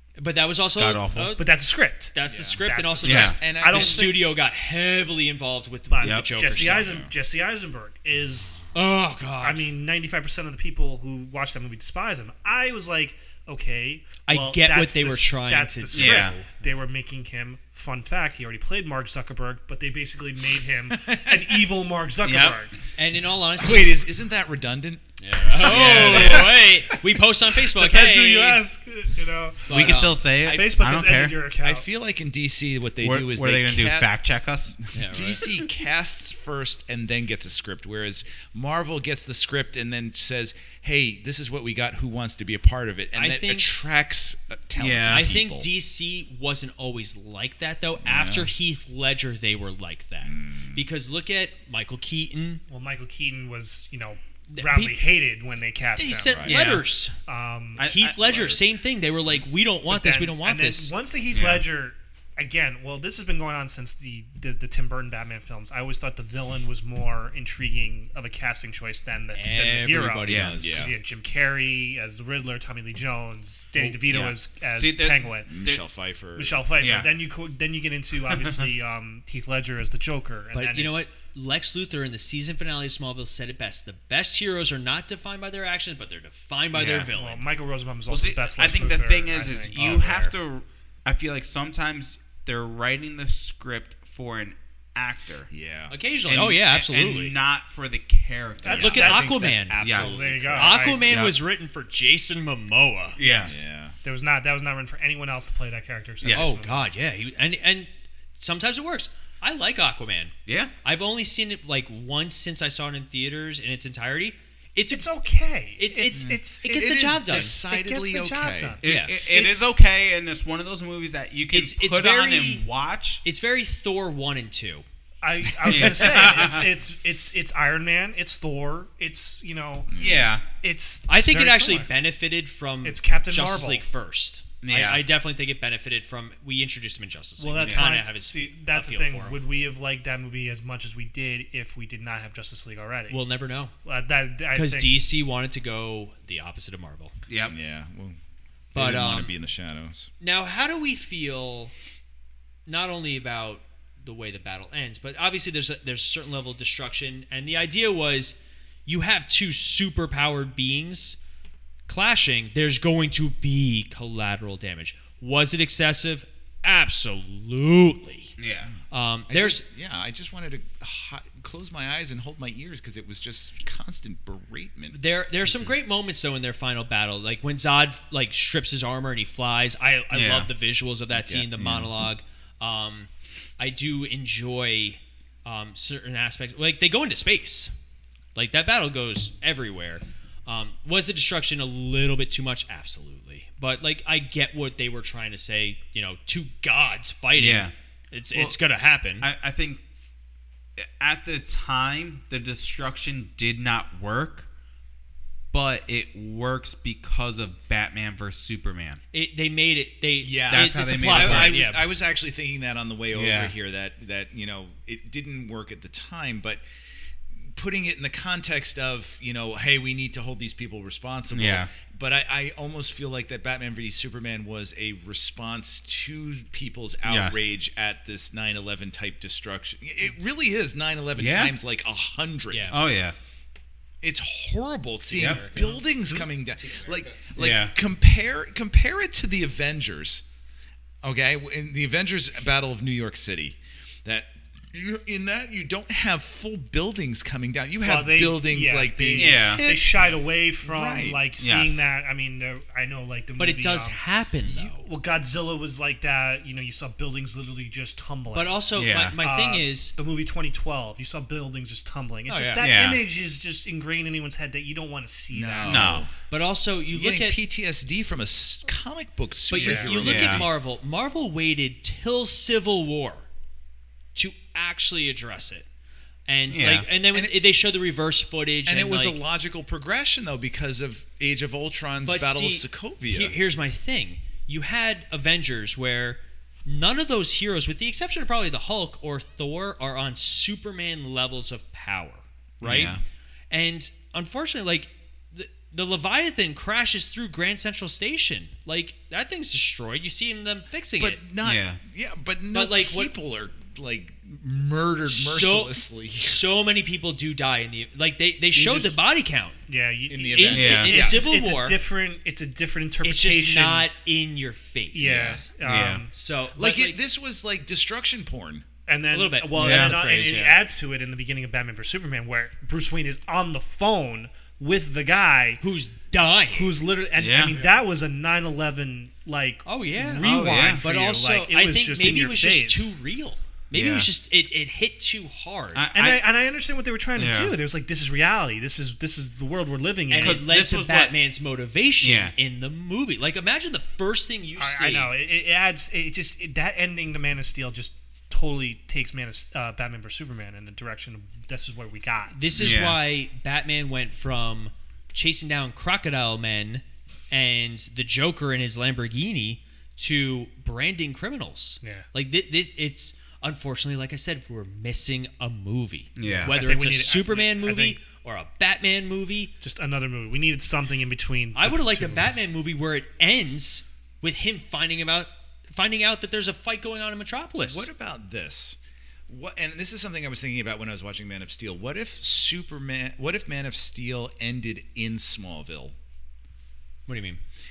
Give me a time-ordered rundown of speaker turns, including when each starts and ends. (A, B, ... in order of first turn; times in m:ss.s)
0:00.2-0:01.6 A
0:00.8-0:01.4 B
0:01.4-0:04.3 C
0:02.1-0:07.1 A
0:02.3-0:02.6 D
0:03.0-0:03.4 B
0:03.1-0:04.1 D
0:05.9-0:08.7 C
0:06.0-0:06.3 B
0:06.6-0:07.1 D
0:08.7-0:09.6 A
0:09.4-0:22.8 C
0:14.3-0:16.5 A
0:15.9-0:16.4 B
0:20.9-0:21.7 D
0:22.2-0:22.6 B
0:23.0-0:24.0 A
0:23.6-0:26.7 D
0:25.2-0:28.6 A
0:25.6-0:27.0 C
0:25.7-0:26.2 B
0:27.6-0:31.9 C
0:29.7-0:30.2 A
0:29.7-0:31.4 B
0:31.6-0:34.1 D
0:33.0-0:34.8 B
0:34.8-0:45.7 D
0:34.9-0:35.5 A
0:43.1-0:43.7 A
0:44.8-0:45.3 B
0:45.1-0:52.6 A
0:48.0-0:48.5 D
0:50.2-0:50.8 D
0:52.7-0:56.5 C
0:54.5-0:55.0 A
0:56.0-0:57.1 A
0:56.3-0:56.6 D
0:56.5-0:56.8 B
0:57.3-0:57.8 C
0:57.8-0:58.3 B
0:57.8-1:00.9 A
0:58.2-0:58.6 D
0:59.9-1:15.6 C
1:01.3-1:01.7 B
1:09.3-1:10.9 A
1:10.3-1:10.6 B
1:10.6-1:11.0 D
1:13.8-1:14.3 A
1:14.1-1:15.8 B
1:15.5-1:16.7 D
1:16.4-1:21.1 C
1:16.8-1:17.2 B
1:18.3-1:18.7 B
1:20.5-1:27.4 A
1:26.7-1:27.1 B
1:27.1-1:30.3 C
1:28.1-1:35.5 B
1:35.5-1:35.9 D
1:35.9-1:37.4 A
1:36.3-1:39.3 B
1:38.6-1:41.2 C
1:38.7-1:40.9 D
1:38.8-1:39.8 A
1:39.8-1:41.4 B
1:40.5-1:43.2 A
1:43.2-1:43.6 B
1:43.2-1:46.9 C
1:43.4-1:44.0 D
1:46.2-1:46.6 B
1:46.3-1:55.1 A
1:50.5-1:50.7 B
1:54.9-1:59.7 C
1:55.8-1:57.6 A
1:56.2-1:58.8 D
1:58.8-2:03.2 B
1:58.8-1:59.2 A
2:01.5-2:02.6 A
2:03.2-2:04.8 A
2:05.2-2:09.9 C
2:05.6-2:06.7 B
2:05.7-2:06.3 D
2:09.9-2:10.3 D
2:10.0-2:10.4 B
2:10.6-2:11.9 C
2:11.1-2:19.4 A
2:12.8-2:13.8 C
2:14.6-2:15.0 B
2:17.4-2:23.2 C
2:17.6-2:18.0 B
2:23.1-2:23.7 A
2:23.8-2:25.0 C
2:24.5-2:27.2 A
2:27.3-2:27.5 B
2:27.5-2:28.2 D
2:28.7-2:29.3 A
2:28.7-2:30.1 D
2:30.2-2:31.7 A
2:32.7-2:41.2 A
2:41.9-2:48.4 A
2:48.4-2:48.7 B
2:48.9-2:49.6 A
2:49.3-2:55.0 D
2:54.9-3:07.7 A
3:00.1-3:00.5 B
3:01.1-3:01.9 D
3:08.4-3:19.3 A
3:17.4-3:17.7 B
3:19.2-3:19.8 B
3:20.8-3:24.5 B
3:25.5-3:29.0 B
3:29.1-3:31.9 A
3:30.2-3:36.6 D
3:30.5-3:31.6 B
3:33.1-3:33.5 B
3:37.5-3:52.8 D
3:41.3-3:41.7 B
3:47.1-3:47.5 B
3:51.2-3:51.6 B
3:52.5-3:52.8 A
3:52.7-3:53.2 B
3:54.0-4:00.2 D
3:55.0-3:56.2 A
3:55.2-3:55.4 B
3:57.4-3:57.7 B
4:01.0-4:11.2 D
4:07.8-4:14.0 C
4:09.2-4:09.6 B
4:11.4-4:11.9 B
4:13.4-4:14.9 A
4:14.6-4:26.0 C
4:18.3-4:20.0 A
4:18.8-4:19.2 B
4:22.3-4:22.7 A
4:22.6-4:23.0 B
4:25.3-4:26.1 D
4:25.7-4:26.1 B
4:26.3-4:27.4 A
4:26.9-4:30.5 D
4:29.5-4:33.3 A
4:29.6-4:30.0 C
4:30.0-4:30.5 B
4:34.2-4:35.7 A
4:36.3-4:39.2 A
4:36.5-4:36.9 B
4:37.1-4:37.4 D
4:38.7-4:43.4 D
4:42.0-4:53.0 A
4:52.6-4:53.0 B
4:53.5-5:01.2 A
5:01.0-5:06.4 D
5:01.4-5:01.8 B
5:02.5-5:03.1 A
5:05.1-5:09.6 A
5:08.6-5:08.9 B
5:09.7-5:13.9 C
5:10.1-5:11.3 D
5:10.2-5:11.8 A
5:10.5-5:11.0 B
5:13.0-5:15.5 A
5:14.9-5:16.1 C
5:15.0-5:15.5 D
5:15.6-5:16.1 B
5:16.1-5:17.0 A
5:16.5-5:18.7 D
5:18.9-5:25.6 C
5:19.1-5:20.7 A
5:19.6-5:20.0 B
5:25.6-5:26.7 A
5:26.5-5:33.0 C
5:27.2-5:27.6 B
5:29.6-5:35.9 A
5:30.2-5:30.8 B
5:33.7-5:34.1 B
5:35.8-5:36.3 B
5:35.9-5:40.5 C
5:37.2-5:37.6 B
5:40.1-5:45.1 A
5:40.2-5:41.2 B
5:42.0-5:42.4 B
5:44.6-5:52.4 C
5:52.3-6:09.5 A
5:52.6-5:53.0 B
6:01.8-6:02.1 C
6:06.2-6:06.6 B
6:06.3-6:08.0 C
6:09.6-6:12.4 C
6:11.6-6:17.9 A
6:17.6-6:26.0 D
6:27.1-6:27.4 A